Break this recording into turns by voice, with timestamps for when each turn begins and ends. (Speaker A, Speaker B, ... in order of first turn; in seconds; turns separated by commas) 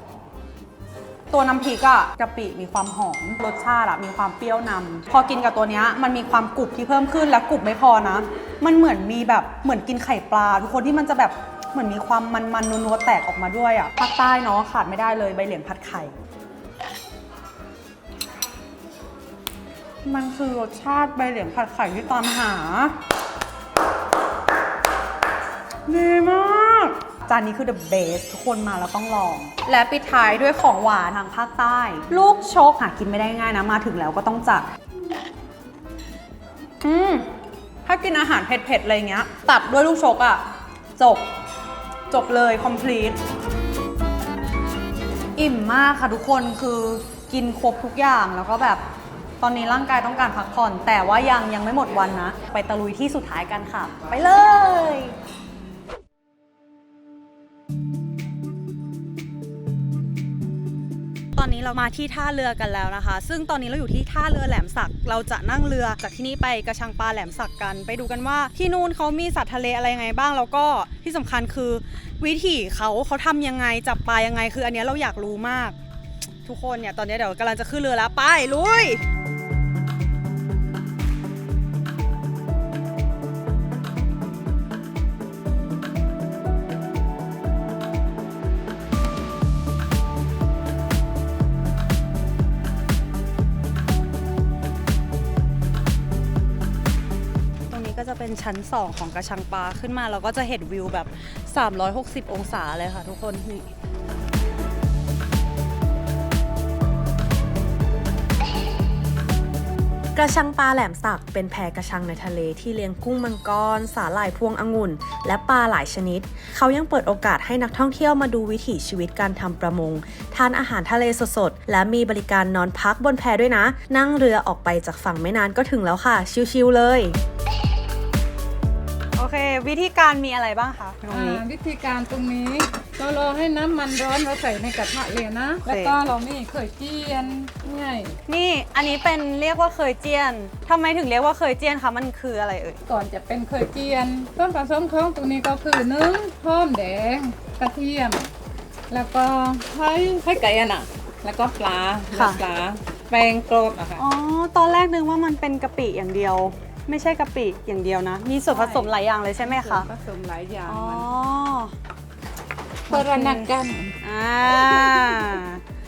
Speaker A: 1.3-16.1, Speaker A: 20.0-22.9, Speaker A: 25.9-34.7, Speaker A: 36.8-37.3, Speaker A: 37.8-40.4, Speaker A: 41.0-41.3, Speaker A: 42.1-43.2, Speaker A: 45.4-48.8, Speaker A: 49.4-55.1, Speaker A: 61.3-75.8, Speaker A: 76.4-79.0, Speaker A: 97.7-103.7, Speaker B: 110.1-127.2, Speaker A: 129.1-131.4, Speaker C: 131.1-138.2, Speaker A: 135.6-136.0, Speaker A: 138.3-142.8, Speaker C: 142.9-148.3, Speaker C: 148.9-154.0, Speaker A: 152.1-152.4, Speaker A: 154.0-159.9, Speaker C: 158.5-161.1, Speaker A: 160.7-161.7, Speaker C: 162.9-163.9, Speaker A: 162.9-165.6, Speaker C: 164.9-165.3